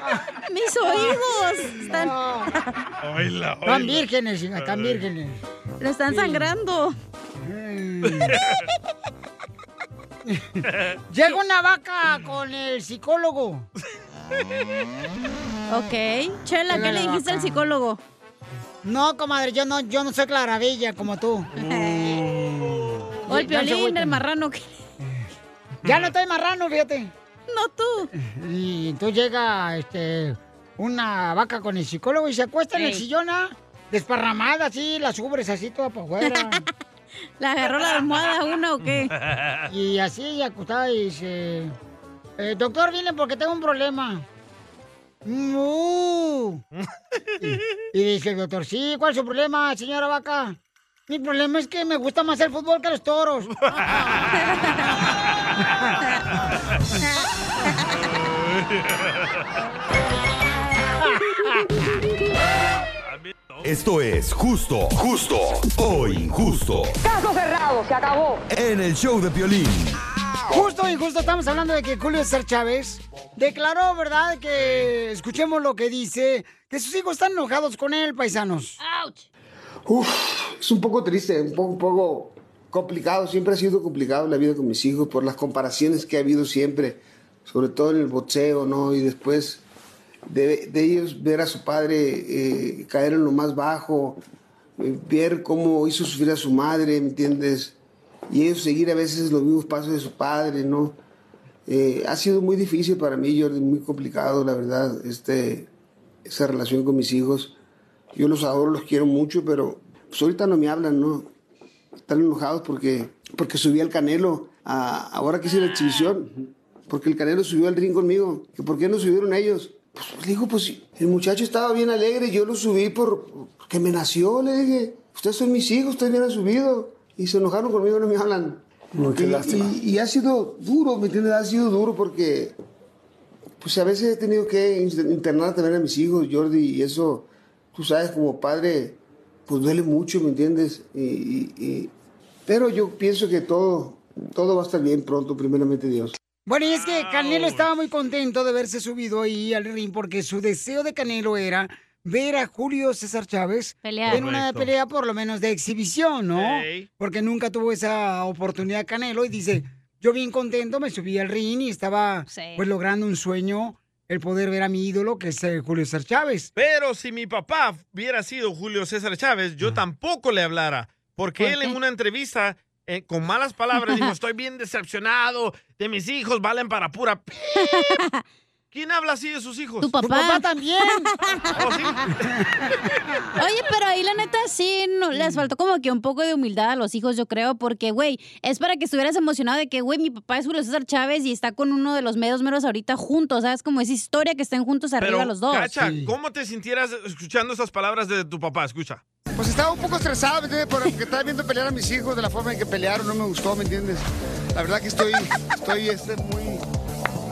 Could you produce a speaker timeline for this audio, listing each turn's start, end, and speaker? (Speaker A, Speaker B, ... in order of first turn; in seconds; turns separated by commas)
Speaker A: 0.5-2.7, Speaker B: 1.8-2.5, Speaker C: 3.0-4.0, Speaker B: 3.6-5.4, Speaker C: 4.6-5.0, Speaker A: 5.8-6.9, Speaker B: 6.1-6.5, Speaker B: 7.4-8.4, Speaker C: 8.0-8.5, Speaker B: 10.3-13.7, Speaker A: 15.7-18.0, Speaker B: 16.7-17.6, Speaker B: 18.8-22.2, Speaker A: 21.6-22.1, Speaker C: 22.0-23.1, Speaker B: 23.3-24.2, Speaker A: 23.3-24.8, Speaker B: 25.0-25.3, Speaker B: 25.8-27.1, Speaker C: 25.8-26.1, Speaker A: 27.5-28.1, Speaker B: 28.1-36.6, Speaker A: 32.7-33.0, Speaker A: 36.2-36.6, Speaker A: 37.4-39.1, Speaker C: 38.8-39.6, Speaker B: 39.7-41.7, Speaker B: 42.4-44.2, Speaker B: 45.2-46.6, Speaker B: 47.4-53.5, Speaker C: 53.6-54.3, Speaker A: 53.7-54.8, Speaker C: 58.3-59.1, Speaker C: 63.0-63.7, Speaker D: 63.6-67.0, Speaker D: 68.5-70.0, Speaker B: 70.5-78.8, Speaker C: 74.6-74.9, Speaker A: 78.8-79.2, Speaker E: 79.8-89.6, Speaker E: 90.3-94.2, Speaker E: 94.8-97.8, Speaker E: 98.3-101.0, Speaker E: 101.7-105.7, Speaker E: 106.2-107.5, Speaker E: 108.1-111.3, Speaker E: 112.1-116.3, Speaker E: 116.9-132.6, Speaker E: 133.6-141.9, Speaker E: 142.4-146.2, Speaker B: 146.4-166.5, Speaker C: 146.6-147.7, Speaker A: 153.8-154.2, Speaker C: 154.1-154.7, Speaker C: 156.3-156.9, Speaker A: 162.3-162.6, Speaker C: 166.6-177.6, Speaker A: 171.4-171.8, Speaker A: 173.8-174.1, Speaker A: 177.5-178.2, Speaker C: 178.7-179.9, Speaker A: 179.8-181.5, Speaker B: 180.0-181.1, Speaker C: 181.5-182.3, Speaker A: 183.4-195.7, Speaker B: 185.1-185.4, Speaker C: 195.0-199.0, Speaker B: 195.8-196.1, Speaker E: 199.3-206.6